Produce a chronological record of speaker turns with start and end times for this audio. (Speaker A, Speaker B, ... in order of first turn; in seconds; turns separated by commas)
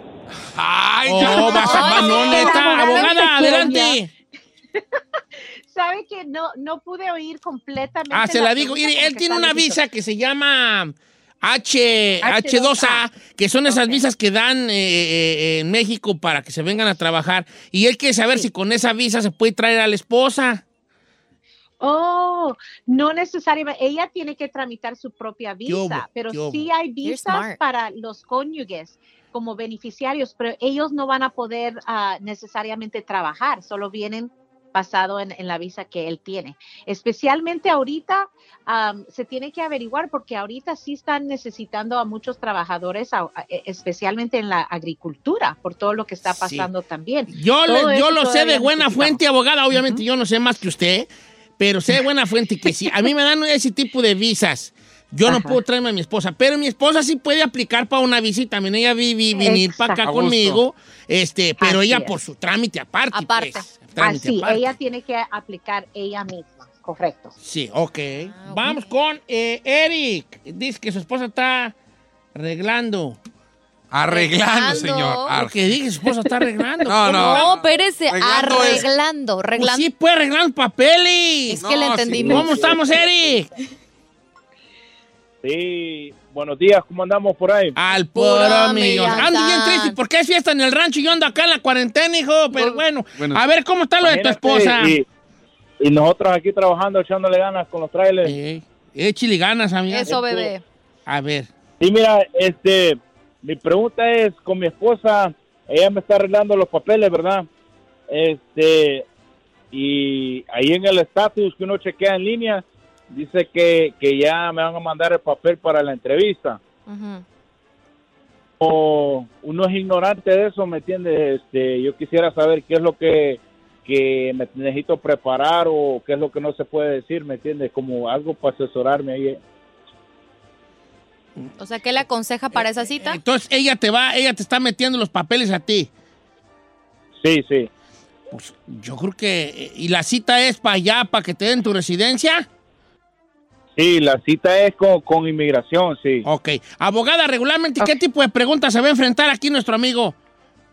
Speaker A: 0.4-2.2, Speaker B: 1.1-4.1, Speaker C: 1.2-3.8, Speaker D: 1.6-4.0, Speaker D: 5.7-9.8, Speaker B: 8.1-20.6, Speaker D: 12.2-13.1, Speaker D: 13.7-14.0, Speaker D: 21.8-49.2, Speaker B: 25.7-26.7, Speaker C: 27.0-27.6, Speaker B: 46.3-46.7, Speaker B: 47.3-64.7, Speaker D: 49.7-50.0, Speaker D: 55.3-55.6, Speaker D: 59.4-60.0, Speaker A: 60.0-60.6, Speaker D: 61.6-62.2, Speaker C: 63.1-63.7, Speaker D: 64.0-67.4, Speaker B: 67.4-71.8, Speaker C: 68.3-68.9, Speaker B: 72.3-73.2, Speaker A: 73.9-75.5, Speaker C: 74.1-75.3, Speaker B: 75.4-77.5, Speaker A: 76.9-78.9, Speaker C: 77.0-79.9, Speaker B: 79.6-81.7, Speaker C: 81.5-82.8, Speaker A: 81.6-82.5, Speaker B: 82.2-83.5, Speaker E: 82.2-83.3, Speaker E: 85.4-87.8, Speaker B: 87.8-95.0, Speaker C: 88.1-90.0, Speaker C: 92.5-92.8, Speaker E: 94.0-95.1, Speaker E: 95.8-98.3, Speaker B: 98.2-100.2, Speaker C: 99.9-100.6, Speaker E: 100.1-100.5, Speaker B: 101.1-101.5, Speaker E: 101.8-107.5, Speaker E: 108.1-109.0, Speaker E: 109.7-116.6, Speaker C: 116.9-117.2, Speaker E: 118.6-129.4, Speaker C: 131.6-133.2, Speaker B: 132.6-135.9, Speaker E: 137.2-137.7, Speaker B: 138.3-142.5, Speaker E: 143.8-146.3, Speaker B: 146.2-150.2